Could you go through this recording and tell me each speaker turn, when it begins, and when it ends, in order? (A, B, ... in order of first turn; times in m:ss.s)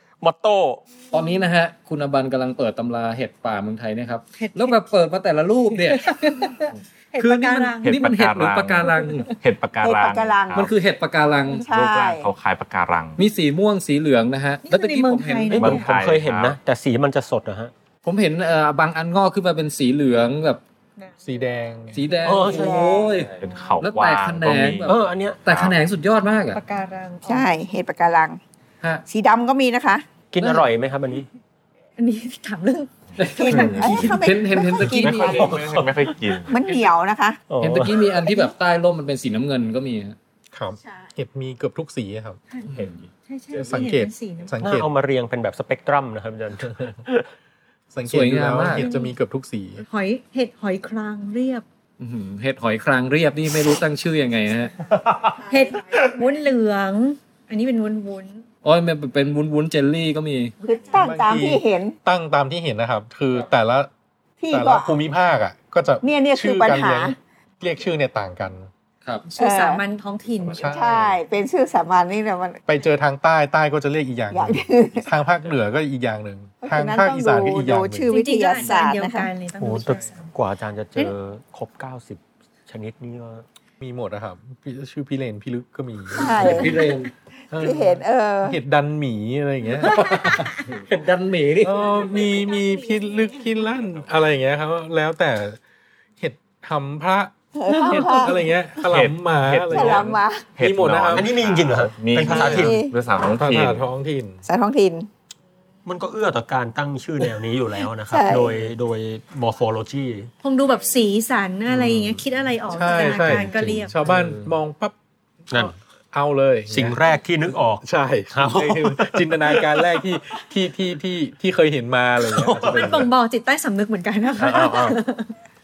0:00.2-0:00.8 A
0:01.1-0:06.2 B
0:04.4-0:04.8 C
0:05.8-0:08.0 C
0:07.2-0:09.3 B
0:07.8-0:10.7 D
0:08.8-0:09.2 C
0:09.8-0:10.7 E
0:10.6-0:11.7 B
0:11.6-0:12.3 E
0:11.7-0:13.2 D
0:13.2-0:15.7 B
0:14.6-0:15.8 C
0:15.5-0:17.7 A
0:15.6-0:16.6 D
0:18.0-0:20.6 B
0:21.0-0:21.4 C
0:21.2-0:22.0 F
0:21.9-0:26.6 B
0:22.2-0:23.1 A
0:22.5-0:23.1 E
0:23.4-0:24.9 D
0:23.4-0:23.8 C
0:24.9-0:25.5 A
0:25.5-0:25.8 D
0:26.5-0:27.5 C
0:27.3-0:28.4 E
0:29.1-0:30.0 E
0:30.3-0:31.3 A
0:30.4-0:30.7 B
0:32.0-0:34.1 C
0:33.2-0:35.6 B
0:33.4-0:35.6 E
0:34.9-0:36.6 D
0:35.3-0:36.0 A
0:36.5-0:37.4 E
0:37.5-0:38.2 A
0:37.6-0:40.2 B
0:40.5-0:42.4 F
0:42.7-0:43.1 B
0:43.3-0:44.5 C
0:43.5-0:44.9 F
0:44.6-0:47.3 A
0:47.9-0:49.8 F
0:48.1-0:48.9 B
0:48.8-0:49.1 C
0:49.9-0:51.6 C
0:52.0-0:54.7 B
0:54.8-0:56.0 A
0:55.5-0:58.4 C
0:58.6-1:00.5 B
1:00.6-1:02.0 E
1:00.9-1:03.9 F
1:04.4-1:05.0 E
1:04.5-1:08.7 F
1:06.0-1:07.2 E
1:09.3-1:10.7 C
1:09.4-1:09.8 E
1:10.5-1:11.2 F
1:10.6-1:12.7 E
1:12.7-1:18.2 F
1:14.3-1:15.1 E
1:16.6-1:19.3 E
1:18.1-1:20.3 C
1:19.6-1:23.5 A
1:23.8-1:26.8 F
1:26.2-1:26.9 E
1:26.2-1:27.1 B
1:27.5-1:30.5 F
1:27.5-1:28.6 E
1:29.8-1:31.8 B
1:31.6-1:35.6 F
1:36.2-1:41.4 F
1:37.6-1:38.4 E
1:38.9-1:43.8 D
1:39.7-1:40.5 E
1:41.1-1:42.8 A
1:42.1-1:42.7 F
1:42.4-1:42.9 E
1:43.4-1:44.4 F
1:44.4-1:45.1 E
1:45.8-1:50.3 A
1:48.1-1:48.6 E
1:50.4-1:54.0 C
1:51.8-1:52.1 F
1:52.7-1:55.0 F
1:55.5-1:57.0 F
1:56.7-1:59.9 A
1:57.8-2:03.1 F
2:02.3-2:02.8 A
2:02.6-2:05.4 C
2:04.4-2:05.0 A